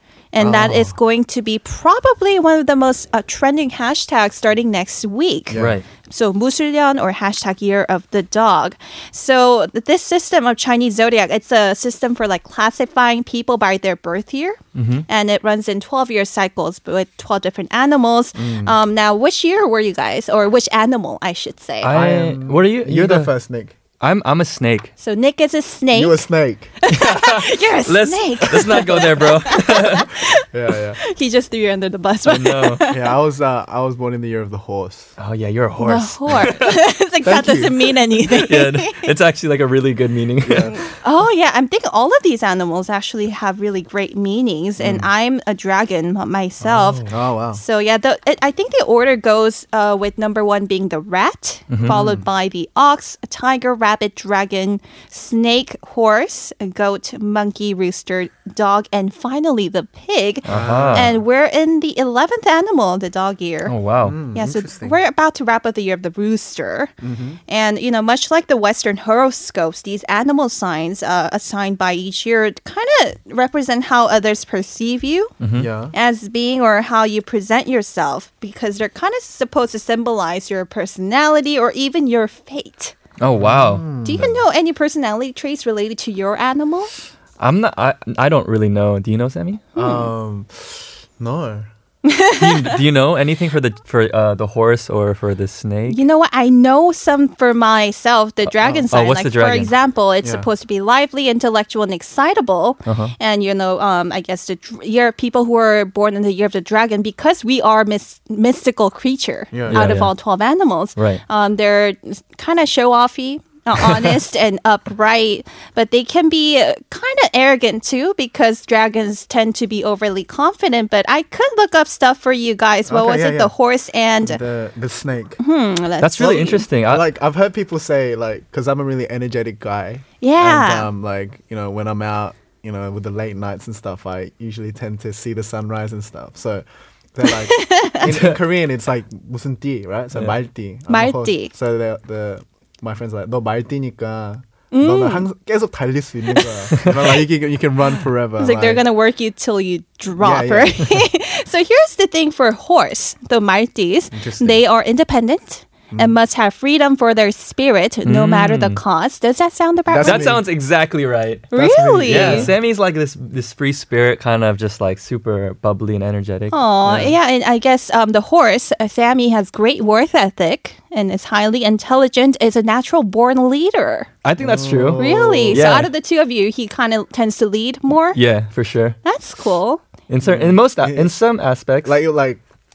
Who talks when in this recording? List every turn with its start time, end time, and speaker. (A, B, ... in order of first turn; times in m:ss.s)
0:00.3-0:21.9 A
0:00.4-0:01.0 B
0:05.5-0:05.8 B
0:05.5-0:05.8 C
0:14.7-0:15.0 C
0:18.4-0:18.8 B
0:21.8-0:23.3 C
0:21.9-0:23.7 B
0:24.0-0:24.9 C
0:25.0-0:26.2 A
0:25.9-0:26.7 B
0:26.8-0:30.4 A
0:26.9-0:30.1 C
0:30.5-0:31.0 B
0:31.0-0:33.1 A
0:32.2-0:32.8 C
0:32.9-0:35.1 B
0:35.2-0:36.7 C
0:35.8-0:39.1 A
0:37.2-0:37.8 B
0:38.2-0:40.8 C
0:40.4-0:40.8 B
0:40.7-1:03.7 A
0:44.8-0:45.1 B
0:46.6-0:47.6 B
0:51.7-0:52.0 C
0:51.9-0:52.2 B
1:00.4-1:01.1 C
1:00.5-1:01.2 B
1:03.6-1:04.2 C
1:04.0-1:05.0 B
1:04.3-1:06.9 A
1:07.0-1:07.4 B
1:07.5-1:15.4 A
1:15.4-1:15.7 C
1:15.5-1:15.9 B
1:15.9-1:23.0 A
1:23.2-1:23.8 C
1:23.4-1:24.4 B
1:24.0-1:26.9 A
1:27.4-1:29.6 C
1:29.7-1:31.7 B
1:29.8-1:30.1 A
1:32.0-1:32.5 A
1:32.4-1:36.0 C
1:35.9-2:04.4 A
1:38.6-1:39.7 C
1:40.2-1:40.5 B
1:42.8-1:43.1 C
1:49.5-1:49.9 B
1:49.7-1:50.1 C
1:51.0-1:51.2 C
2:02.9-2:03.5 B
2:04.2-2:05.4 B
2:05.4-2:06.6 A
2:06.0-2:07.0 C
2:06.6-2:28.8 B
2:10.2-2:10.9 A
2:17.2-2:18.1 A
2:18.1-2:18.4 C
2:20.9-2:21.5 A
2:24.7-2:25.2 A
2:28.4-2:40.3 A
2:30.2-2:31.0 B
2:34.1-2:34.6 B
2:35.9-2:36.2 B
2:38.0-2:38.8 C
2:39.9-2:40.4 B
2:40.0-2:41.5 C
2:41.5-2:42.5 A
2:41.5-2:42.5 B
2:42.0-2:46.6 C
2:46.5-2:54.1 A
2:46.9-2:47.1 B
2:54.2-2:55.9 C
2:54.4-2:55.7 B
2:55.0-2:58.2 A
2:58.1-2:59.0 C
2:59.0-2:59.8 A
3:00.1-3:02.0 C
3:00.2-3:01.2 B
3:01.8-3:02.4 B